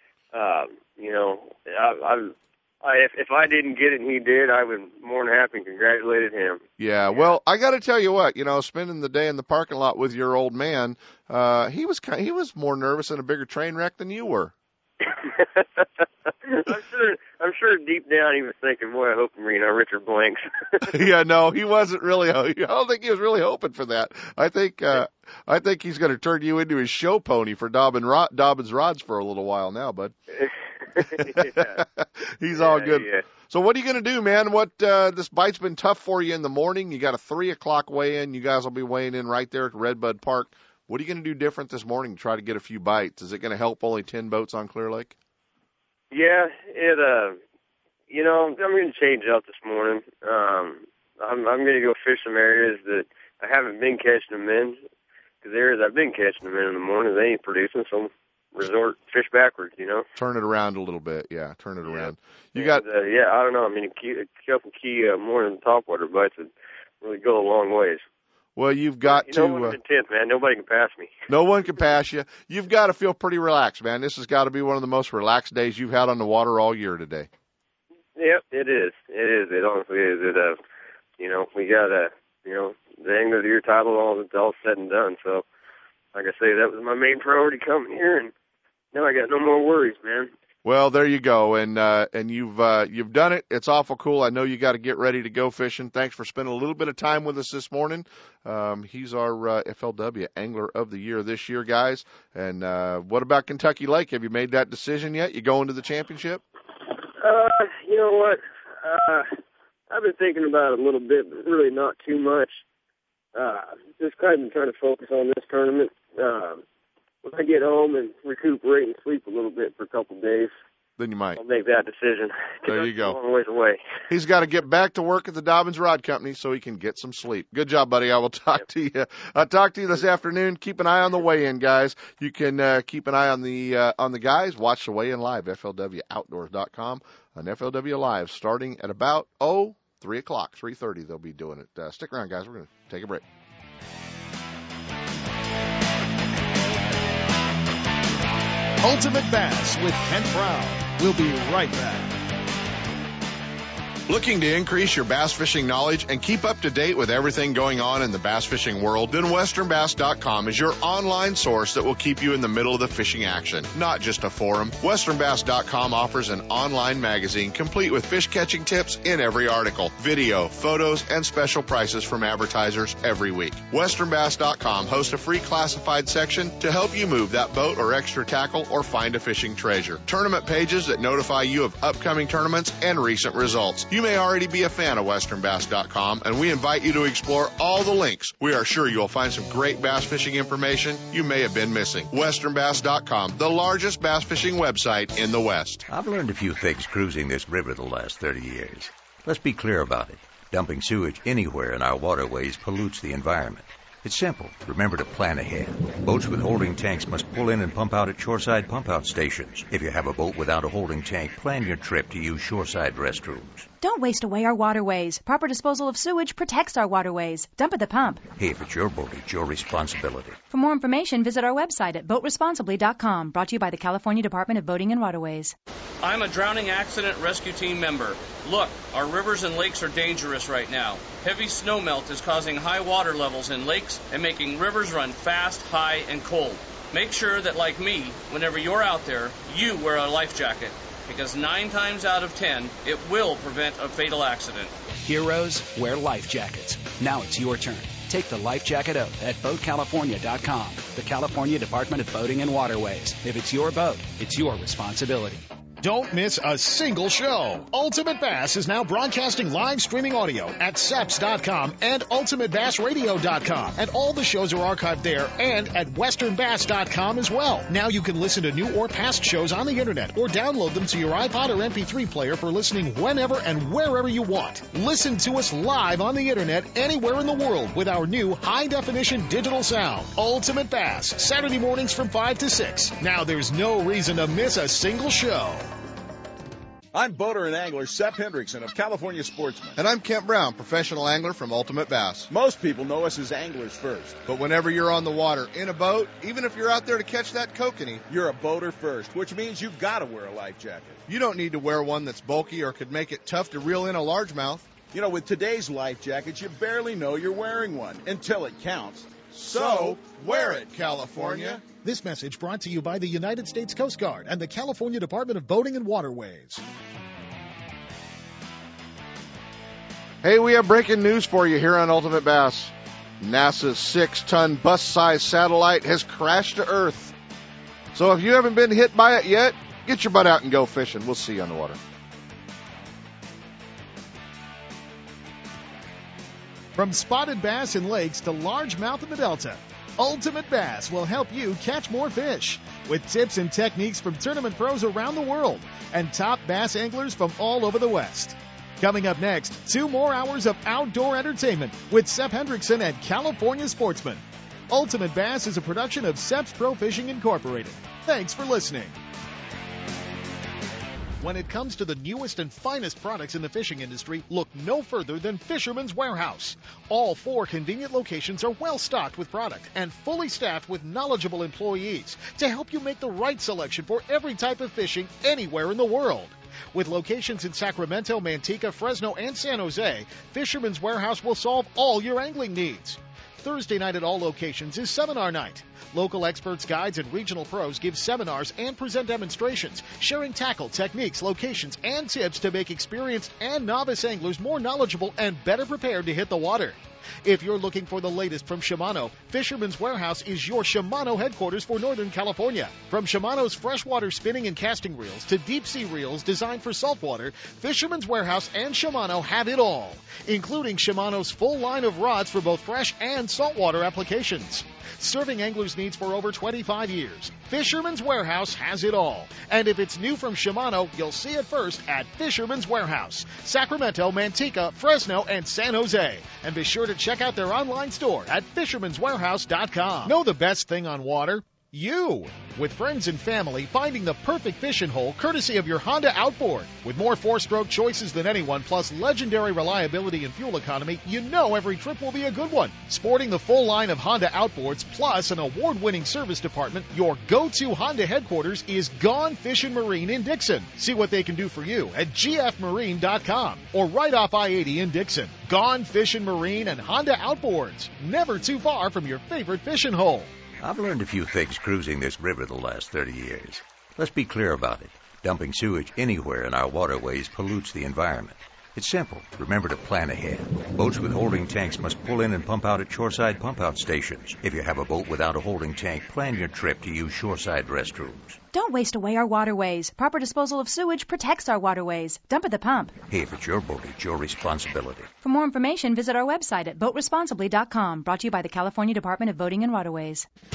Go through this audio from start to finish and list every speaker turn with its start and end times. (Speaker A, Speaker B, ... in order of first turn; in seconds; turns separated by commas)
Speaker A: 0.3-6.6, Speaker B: 6.8-14.5, Speaker A: 15.2-15.6, Speaker A: 16.5-21.0, Speaker B: 20.9-30.1, Speaker A: 30.4-31.8, Speaker B: 31.0-45.1, Speaker A: 32.5-33.2, Speaker A: 46.1-47.4, Speaker A: 48.1-54.8, Speaker A: 55.4-60.1, Speaker B: 60.2-62.8, Speaker A: 61.9-68.0, Speaker B: 68.6-69.8, Speaker A: 69.0-71.2, Speaker B: 71.3-77.3, Speaker A: 78.2-80.6, Speaker A: 81.2-85.5, Speaker A: 86.2-88.3, Speaker A: 88.9-90.3, Speaker B: 90.7-106.4, Speaker A: 107.2-109.3, Speaker A: 109.9-112.6, Speaker A: 113.3-116.6, Speaker A: 117.2-120.5, Speaker B: 121.0-121.4, Speaker A: 121.4-123.8, Speaker B: 122.7-123.2, Speaker B: 124.1-143.2, Speaker C: 148.8-152.2, Speaker B: 154.1-195.9, Speaker D: 195.9-213.7, Speaker E: 213.8-218.3, Speaker D: 218.3-220.4, Speaker E: 220.5-225.6, Speaker F: 226.0-244.7, Speaker G: 245.0-255.4, Speaker C: 255.8-285.7, Speaker H: 286.9-289.8, Speaker B: 289.8-292.3, Speaker H: 292.3-294.2, Speaker B: 294.3-298.1, Speaker H: 298.1-301.0, Speaker B: 301.1-304.7, Speaker H: 304.9-311.6, Speaker B: 310.6-311.6, Speaker C: 311.8-316.6, Speaker B: 320.2-327.2, Speaker B: 327.9-331.8, Speaker C: 336.8-358.9, Speaker C: 361.2-460.3, Speaker D: 460.6-478.4, Speaker E: 478.5-483.0, Speaker D: 483.0-485.1, Speaker E: 485.2-490.3